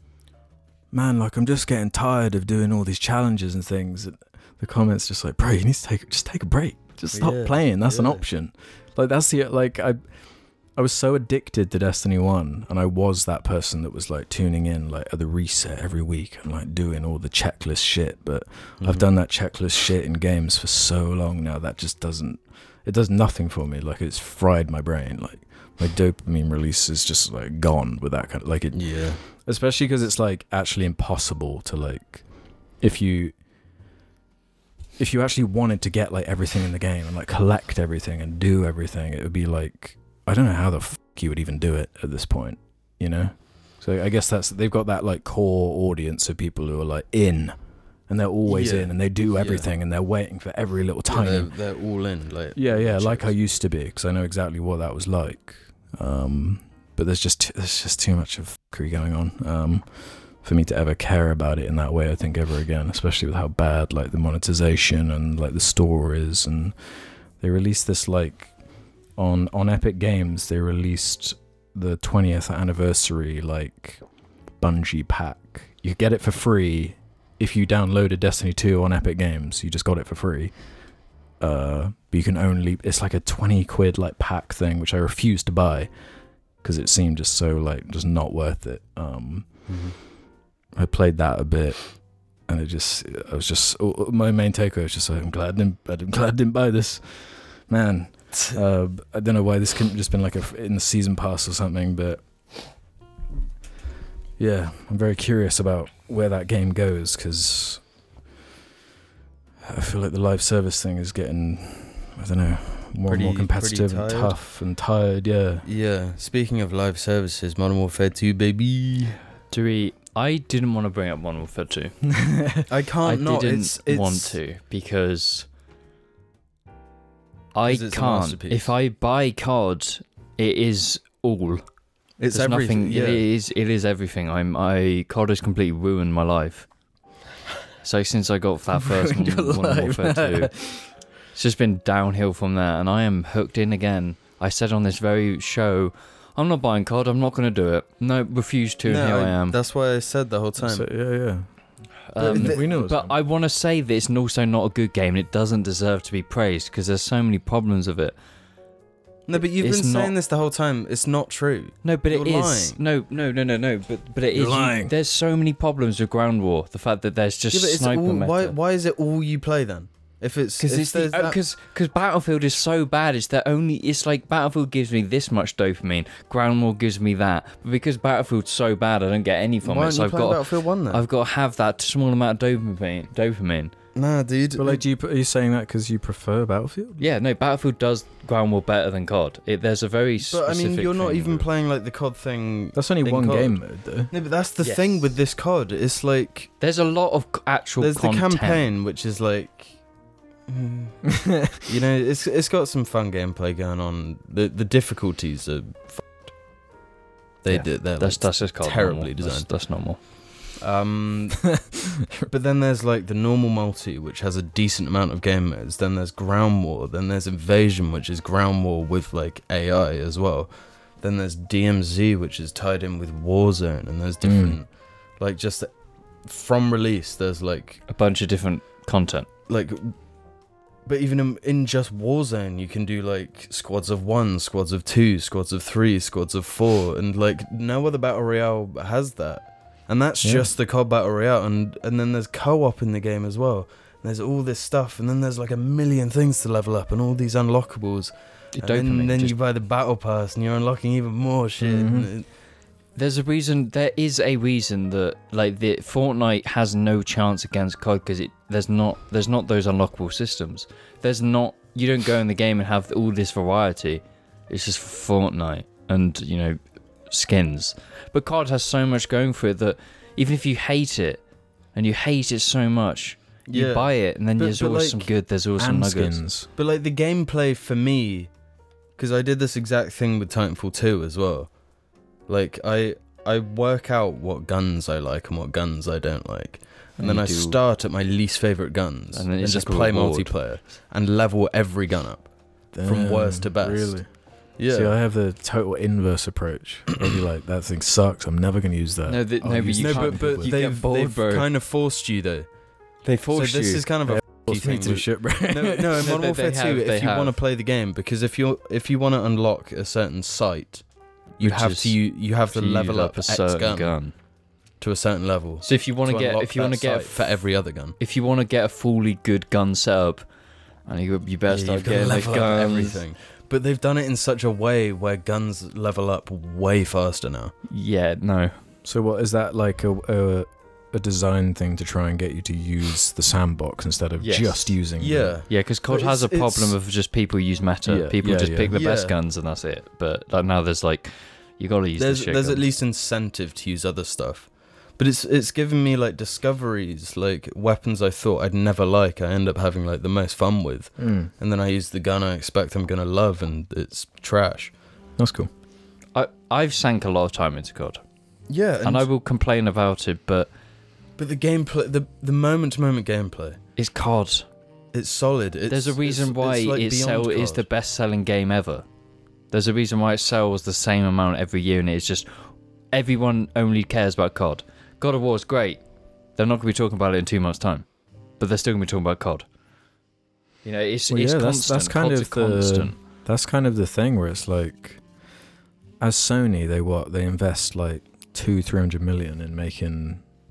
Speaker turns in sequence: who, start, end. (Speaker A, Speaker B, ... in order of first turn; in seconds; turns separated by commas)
Speaker A: 0.9-33.3, Speaker B: 7.1-8.2, Speaker B: 18.8-19.0, Speaker B: 28.7-29.2, Speaker A: 35.0-51.5, Speaker B: 48.5-49.7, Speaker B: 51.1-53.4, Speaker A: 52.5-89.8, Speaker B: 89.7-90.0, Speaker A: 90.7-102.2, Speaker B: 98.3-98.6, Speaker A: 104.4-107.9, Speaker A: 109.7-115.7, Speaker B: 113.1-114.3, Speaker B: 115.6-119.2, Speaker C: 119.5-122.2, Speaker A: 122.1-122.6, Speaker B: 122.7-124.3, Speaker C: 123.0-125.5, Speaker C: 127.5-136.7, Speaker B: 127.6-128.7, Speaker B: 132.2-133.2, Speaker C: 137.8-149.6, Speaker A: 138.8-140.9, Speaker B: 148.8-151.1, Speaker A: 150.6-153.2, Speaker C: 152.1-158.2, Speaker B: 152.2-152.7, Speaker B: 159.3-162.8, Speaker C: 159.3-160.1, Speaker C: 161.8-168.6, Speaker A: 164.3-164.9, Speaker B: 167.5-171.4, Speaker C: 170.6-183.7, Speaker B: 179.6-181.0, Speaker B: 183.9-184.8, Speaker A: 184.6-187.0, Speaker C: 187.0-191.5, Speaker B: 190.3-196.5, Speaker A: 192.7-194.1, Speaker C: 194.6-195.0, Speaker C: 196.6-198.6, Speaker B: 197.8-199.9, Speaker B: 200.5-206.3, Speaker B: 207.4-210.0, Speaker C: 207.5-210.0, Speaker B: 210.6-227.8, Speaker A: 211.5-212.3, Speaker A: 224.2-224.6, Speaker C: 227.9-229.3, Speaker B: 229.5-230.3, Speaker B: 230.8-252.3, Speaker A: 240.2-240.5, Speaker C: 248.6-249.4, Speaker A: 251.6-252.1, Speaker C: 252.9-276.2, Speaker B: 273.5-274.9, Speaker A: 274.4-276.5, Speaker B: 276.6-278.3, Speaker B: 278.9-294.9, Speaker C: 287.0-287.5, Speaker C: 289.1-290.3, Speaker A: 292.7-300.6, Speaker C: 299.1-301.4, Speaker B: 299.8-302.6, Speaker C: 303.0-303.9, Speaker B: 303.3-314.2, Speaker A: 304.1-306.1, Speaker C: 306.0-307.4, Speaker C: 311.4-314.1, Speaker B: 314.8-318.0, Speaker C: 315.6-320.3, Speaker C: 320.8-323.0, Speaker B: 321.5-327.5, Speaker C: 327.7-328.6, Speaker A: 328.8-335.4, Speaker C: 334.2-334.8, Speaker B: 335.0-336.8, Speaker C: 335.5-342.7, Speaker A: 337.8-338.7, Speaker B: 338.7-339.1, Speaker B: 342.0-354.8, Speaker A: 351.0-351.3, Speaker A: 355.2-355.5, Speaker C: 356.1-360.5, Speaker B: 358.5-359.1, Speaker B: 361.2-363.6, Speaker C: 363.8-364.5, Speaker B: 364.9-367.6, Speaker C: 365.7-368.9, Speaker C: 369.5-379.5, Speaker C: 380.6-383.0, Speaker A: 381.1-385.0, Speaker A: 386.0-390.2